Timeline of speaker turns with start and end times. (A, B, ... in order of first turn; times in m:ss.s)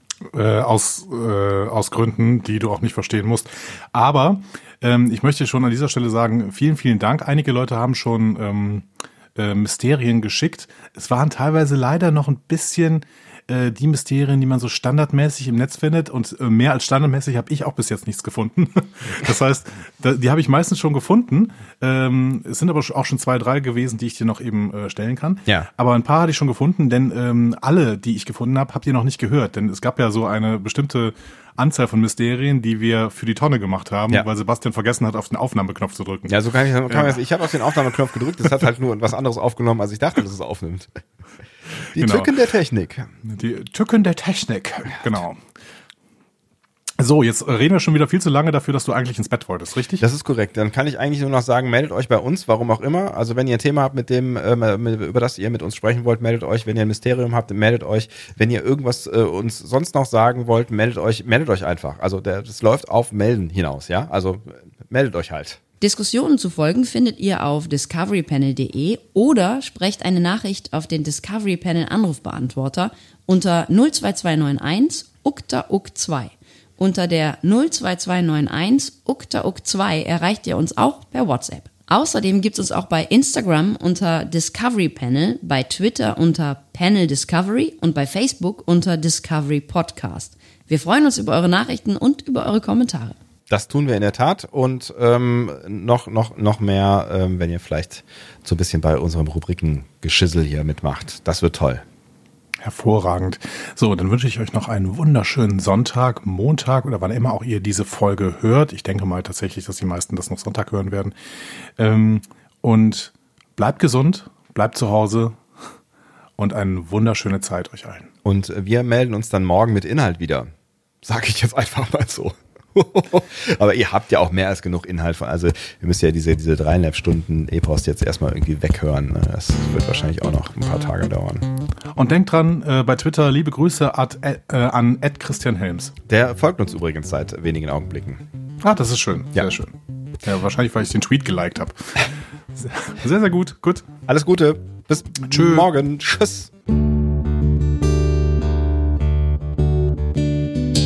0:00.3-0:36.3 A
0:36.3-0:40.9 B
0:36.9-0:37.2 A
0:41.9-0:43.1 B
0:42.0-0:42.4 A
0:43.2-0:45.4 A
0:47.0-0:50.0 A
0:50.0-1:05.6 B
1:05.8-1:33.2 C
1:33.5-1:41.8 B
1:42.6-1:51.2 A
1:51.8-1:55.4 A
1:56.4-1:58.1 A
1:58.2-2:00.5 B
2:01.0-2:11.5 B
2:12.0-2:15.9 A
2:16.1-2:18.2 B
2:18.6-2:23.8 A
2:24.1-2:26.5 B
2:25.2-2:25.7 A